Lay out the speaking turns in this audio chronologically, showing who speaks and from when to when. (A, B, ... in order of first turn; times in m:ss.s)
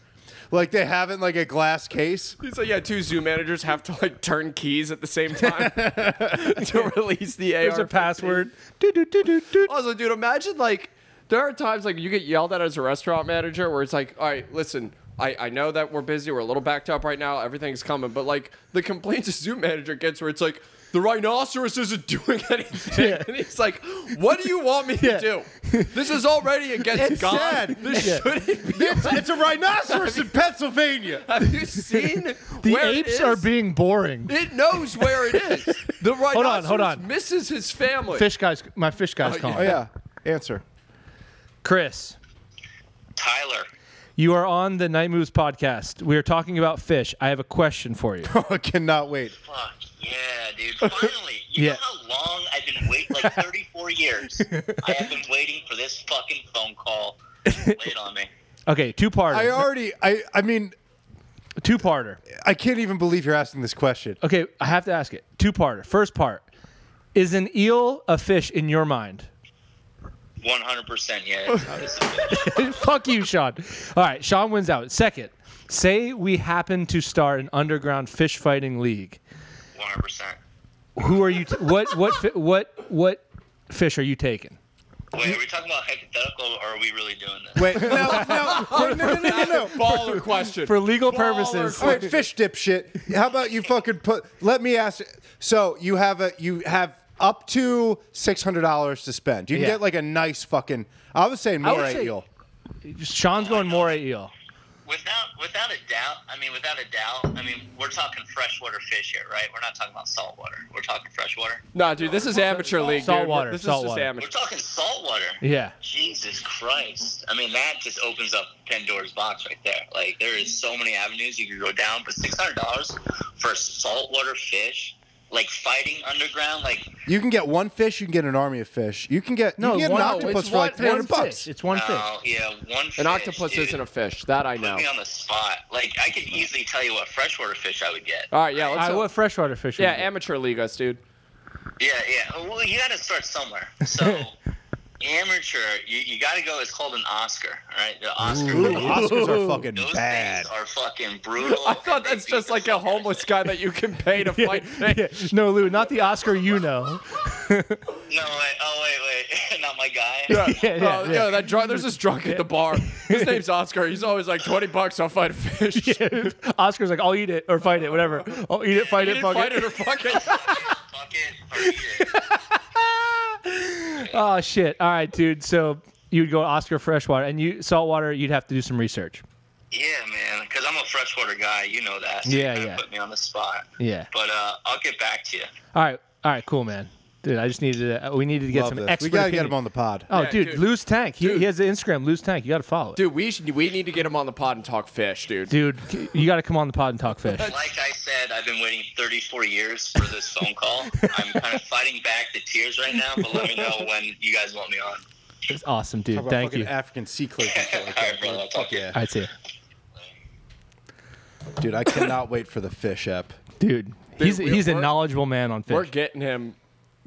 0:00.5-0:02.4 A
0:02.4-0:08.4 B
0:07.6-0:09.7 C
0:09.6-0:29.4 B
0:22.9-0:23.3 C
0:25.0-0:26.0 C
0:26.9-0:31.3 A
0:27.9-0:28.2 C
0:29.9-0:30.2 B
0:31.2-0:33.5 B
0:31.6-0:34.3 C
0:34.3-0:38.3 B
0:35.9-0:37.0 C
0:38.1-0:39.8 C
0:39.2-0:39.8 B
0:39.5-0:40.6 A
0:41.6-0:42.2 C
0:43.2-0:43.7 D
0:44.2-0:48.3 C
0:48.2-0:49.3 A
0:49.4-0:58.3 D
0:50.8-0:51.1 B
0:51.6-0:51.8 C
0:54.5-0:55.0 C
0:57.4-0:57.8 C
0:58.7-0:59.7 C
0:59.3-1:00.7 A
1:01.6-1:02.2 C
1:02.3-1:04.2 A
1:04.2-1:06.4 C
1:07.1-1:09.3 C
1:10.4-1:12.7 D
1:12.3-1:19.2 C
1:19.7-1:20.4 D
1:21.0-1:24.6 C
1:25.1-1:28.3 D
1:27.6-1:30.2 A
1:27.7-1:32.0 C
1:28.1-1:32.2 B
1:31.7-1:42.2 A
1:39.5-1:39.8 C
1:41.6-1:42.2 C
1:42.8-1:44.3 C
1:43.4-1:43.9 D
1:44.8-1:53.0 D
1:51.7-1:54.3 B
1:52.8-1:54.1 C
1:54.2-2:06.9 D
1:55.4-1:55.7 C
2:07.0-2:11.5 A
2:09.6-2:12.1 C
2:09.9-2:10.6 B
2:11.7-2:13.8 D
2:13.0-2:14.9 B
2:14.6-2:18.8 D
2:18.3-2:19.1 B
2:18.8-2:20.1 C
2:19.8-2:21.0 B
2:21.8-2:24.3 D
2:25.0-2:29.2 D
2:28.2-2:30.5 A
2:28.2-2:29.6 C
2:29.7-2:33.3 D
2:31.4-2:35.3 B
2:34.3-2:37.8 C
2:38.1-2:40.7 D
2:40.3-2:43.4 C
2:40.3-2:46.3 B
2:45.8-2:49.7 C
2:48.8-2:50.7 B
2:50.2-2:52.1 D
2:51.6-2:59.2 C
2:59.7-3:05.5 D
3:02.2-3:02.8 C
3:03.8-3:04.1 C
3:05.7-3:09.6 C
3:08.5-3:10.1 A
3:10.1-3:13.0 C
3:10.1-3:10.7 B
3:11.2-3:11.5 B
3:13.0-3:15.6 B
3:15.5-3:17.5 C
3:17.4-3:25.0 D
3:21.0-3:21.6 C
3:23.1-3:23.8 C
3:25.5-3:26.7 C
3:26.1-3:28.9 A
3:27.4-3:29.0 D
3:28.9-3:29.3 C
3:31.6-3:33.4 A
3:33.6-3:35.9 C
3:34.2-3:35.1 B
3:35.7-3:36.6 B